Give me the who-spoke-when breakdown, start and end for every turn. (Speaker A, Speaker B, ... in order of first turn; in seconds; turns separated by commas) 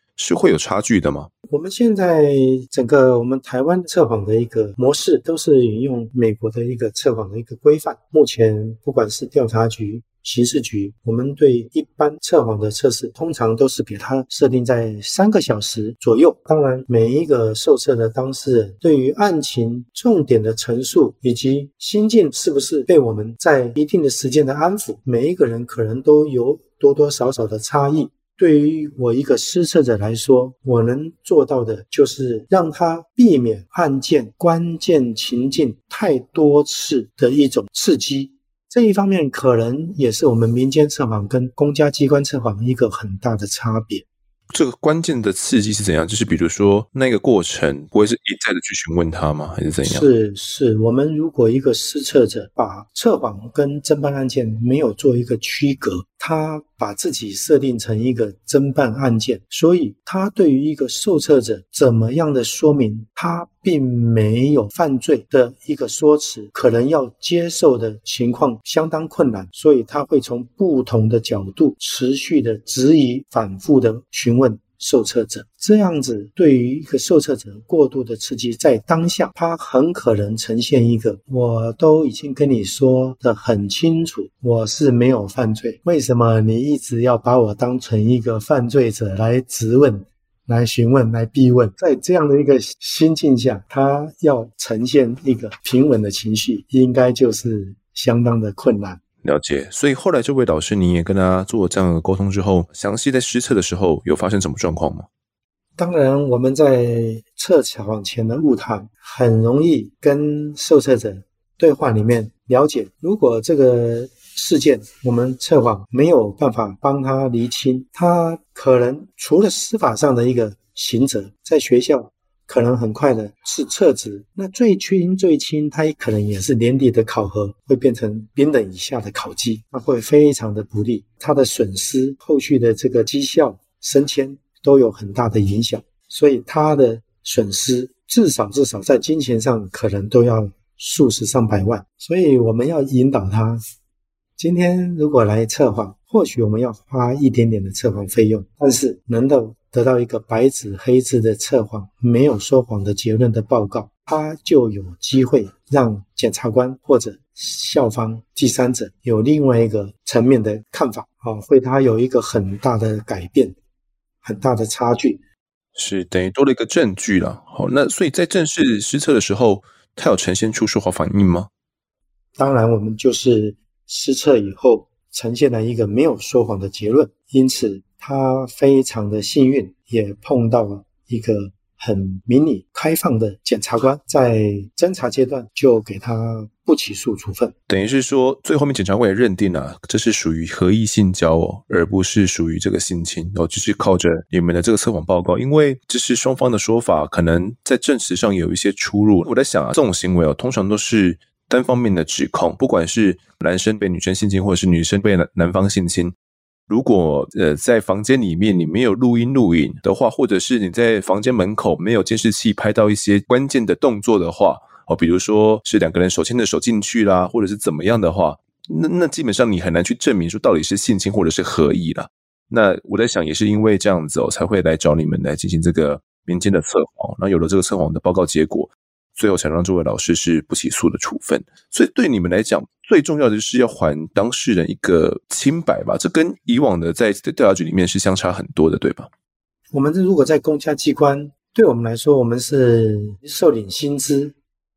Speaker A: 0.2-1.3, Speaker B: 1.5-44.0, Speaker A: 44.5-50.1, Speaker B: 49.8-99.0, Speaker A: 99.2-105.1, Speaker B: 105.8-143.6, Speaker B: 144.4-163.6, Speaker B: 164.2-165.2, Speaker A: 165.7-171.5, Speaker B: 172.4-187.5, Speaker A: 187.7-206.1, Speaker A: 206.7-239.1, Speaker B: 239.7-244.3